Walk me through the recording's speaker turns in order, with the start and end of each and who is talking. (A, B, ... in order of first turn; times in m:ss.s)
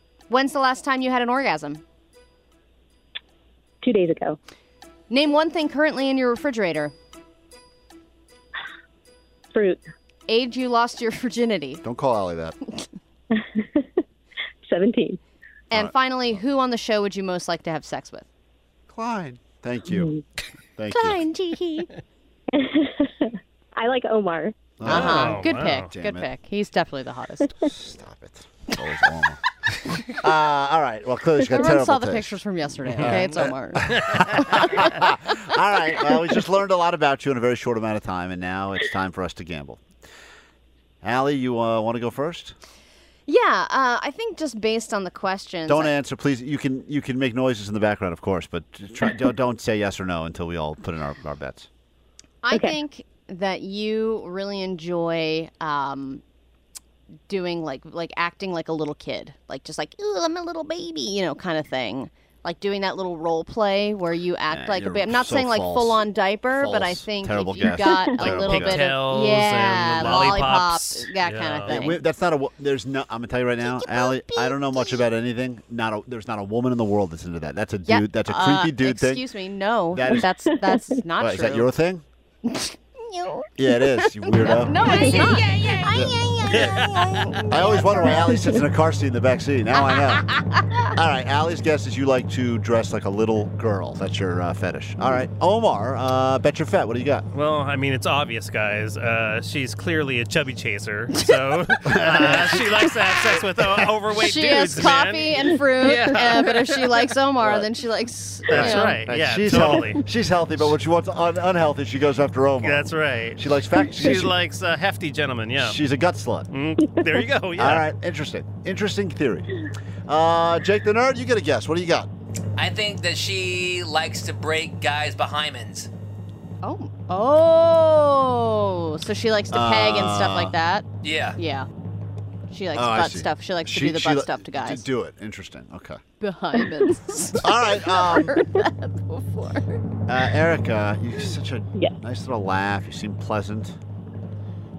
0:00.3-0:01.8 A
0:03.8-0:04.4 B
0:05.1-0:06.9 A
0:09.5-0:09.8 B
0:10.3-0:11.8 A
0:11.8-0:12.6 C
0:13.3-0:13.9 B
0:14.6-0:15.2 B
0:15.7-0:18.3 A
0:15.7-0:16.4 C
0:18.9-0:20.1 C
0:19.9-0:20.2 B
0:20.8-0:21.2 C
0:20.9-0:21.9 A
0:22.5-0:24.6 B
0:24.8-0:26.3 C
0:24.9-0:27.5 A
0:24.9-0:25.9 D
0:27.6-0:29.4 C
0:30.2-0:39.8 C
0:31.5-0:34.9 A
0:41.0-0:42.6 C
0:43.3-0:45.9 A
0:45.7-0:51.7 C
0:52.4-0:56.2 A
0:52.5-0:52.8 B
0:57.3-1:12.0 A
1:04.5-1:09.0 C
1:08.2-1:11.8 D
1:09.9-1:10.5 C
1:11.7-1:19.2 C
1:13.7-1:15.0 A
1:17.9-1:21.7 A
1:19.9-1:20.3 C
1:21.2-1:22.0 C
1:22.4-1:28.3 A
1:23.6-1:26.9 C
1:26.5-1:27.4 D
1:27.4-1:30.3 C
1:27.8-1:28.6 B
1:29.8-1:30.9 A
1:30.9-1:37.3 C
1:37.3-1:47.0 D
1:41.8-1:42.8 C
1:44.1-1:49.0 A
1:48.5-1:50.0 D
1:48.5-1:54.4 C
1:52.6-1:55.8 D
1:55.6-1:56.5 C
1:56.5-1:57.9 D
1:57.6-1:59.5 C
2:00.1-2:02.1 C
2:02.6-2:05.9 E
2:06.6-2:10.9 A
2:09.5-2:10.6 C
2:11.0-2:11.4 E
2:11.4-2:11.7 A
2:12.5-2:14.8 A
2:12.7-2:16.0 C
2:16.2-2:19.9 A
2:17.4-2:18.4 C
2:20.1-2:23.8 C